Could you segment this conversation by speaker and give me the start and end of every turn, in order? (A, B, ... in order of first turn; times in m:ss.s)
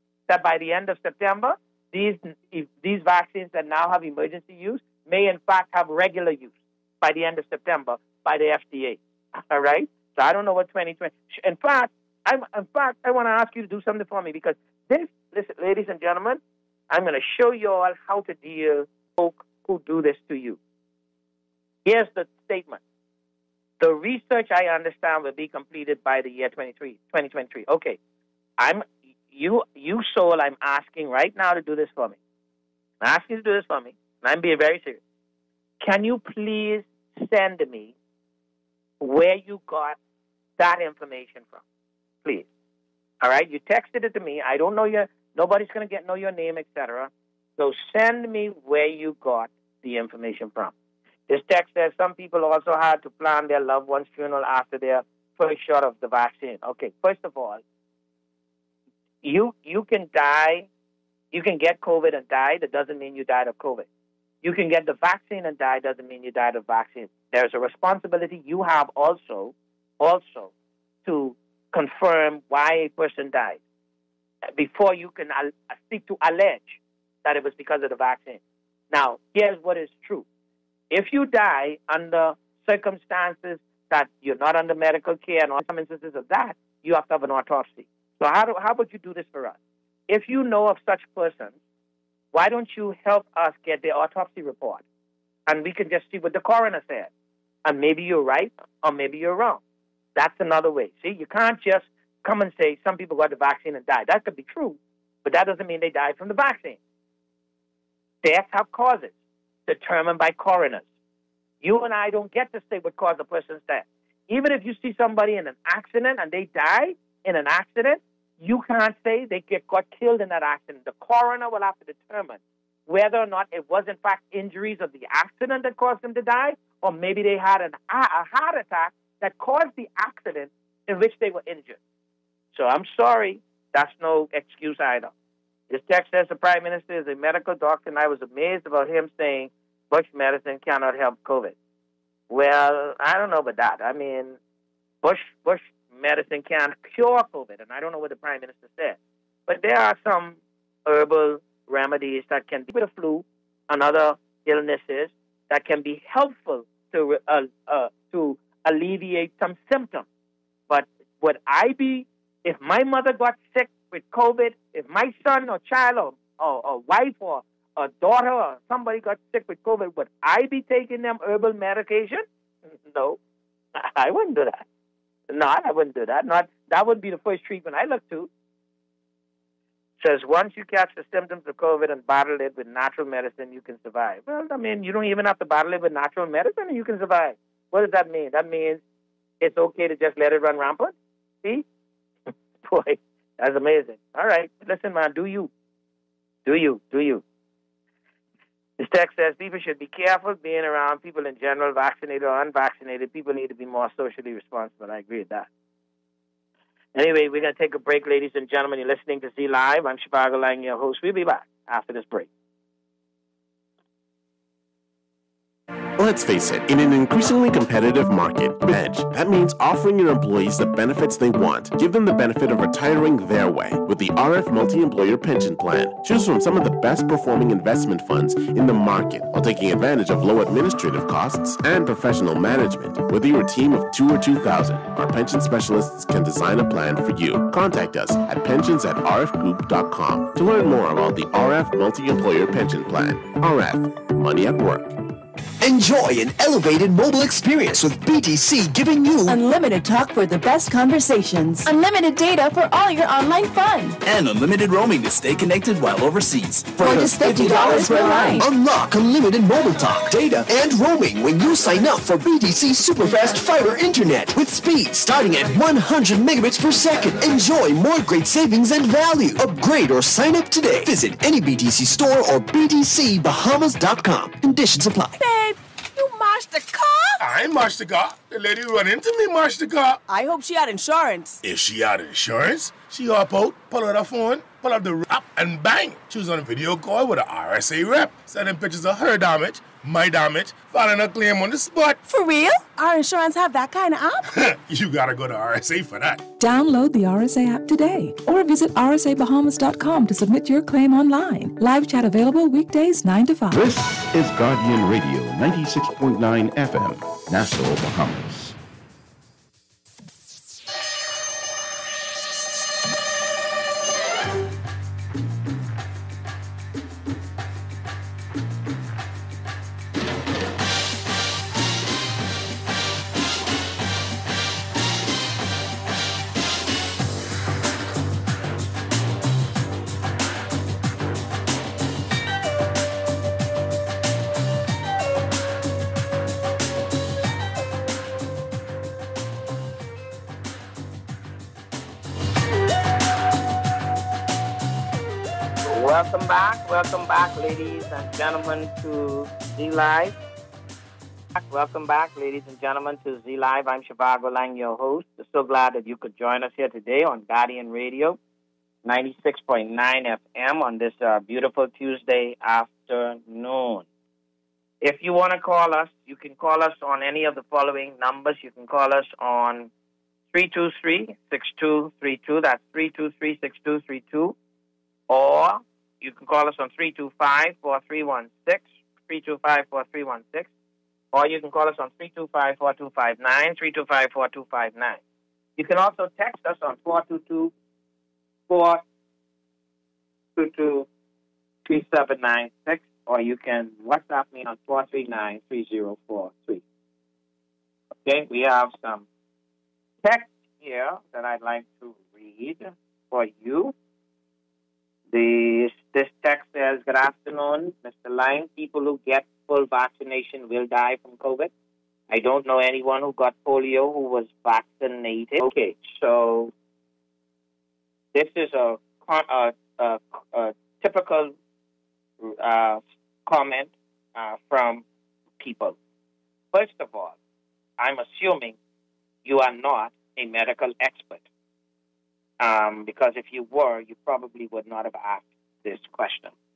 0:00.3-0:20.6 A
0:21.8-0:22.8 A
0:23.8-0:28.0 A
0:28.6-0:32.2 A
0:33.0-0:35.0 A
0:35.8-0:38.0 A
0:39.0-0:40.0 A
0:40.6-0:41.6 A
0:43.2-0:50.7 A
0:51.3-0:57.6 A
0:59.2-1:00.7 A
1:01.3-1:03.9 A
1:04.4-1:10.5 A
1:11.0-1:13.6 A
1:14.4-1:20.2 A
1:20.9-1:29.6 A
1:30.1-1:31.6 A
1:32.3-1:34.8 A
1:35.5-1:37.1 A
1:37.6-1:39.6 A
1:40.1-1:46.8 A
1:48.2-1:49.1 A
1:49.6-1:50.8 A
1:51.6-2:11.8 A
2:12.5-2:15.1 A
2:15.7-2:21.5 A
2:22.3-2:24.4 A
2:25.0-2:40.1 A
2:40.7-2:53.2 A
2:53.7-2:54.6 A
2:55.3-2:58.3 A
3:00.0-3:08.8 A
3:09.4-3:11.6 A
3:12.6-3:15.5 A
3:16.4-3:17.2 A
3:18.8-3:25.5 A
3:26.9-3:32.3 A
3:36.0-4:05.0 B
4:05.6-4:09.4 C
4:09.2-4:14.0 D
4:14.0-4:16.9 E
4:16.8-4:18.5 D
4:16.8-4:35.2 C
4:35.2-4:37.2 F
4:37.2-4:40.0 G
4:40.1-4:41.4 F
4:41.4-4:52.0 G
4:52.0-4:54.2 F
4:54.3-4:56.3 G
4:56.4-5:03.6 H
5:03.5-5:08.6 I
5:45.6-5:50.2 A
5:51.3-5:58.2 A
5:58.8-6:03.8 A
6:04.8-6:09.7 A
6:10.3-6:14.4 A
6:15.1-6:20.5 A
6:21.1-6:25.0 A
6:25.6-6:27.5 A
6:28.5-6:28.8 A
6:30.4-6:30.9 A
6:31.6-6:36.6 A
6:38.0-6:39.0 A
6:40.0-6:43.7 A
6:45.1-6:51.5 A
6:52.1-6:56.5 A
6:58.1-7:01.4 A
7:02.2-7:04.8 A
7:05.4-7:05.8 A
7:06.5-7:07.2 A
7:07.8-7:08.6 A
7:09.2-7:11.3 A
7:12.4-7:16.3 A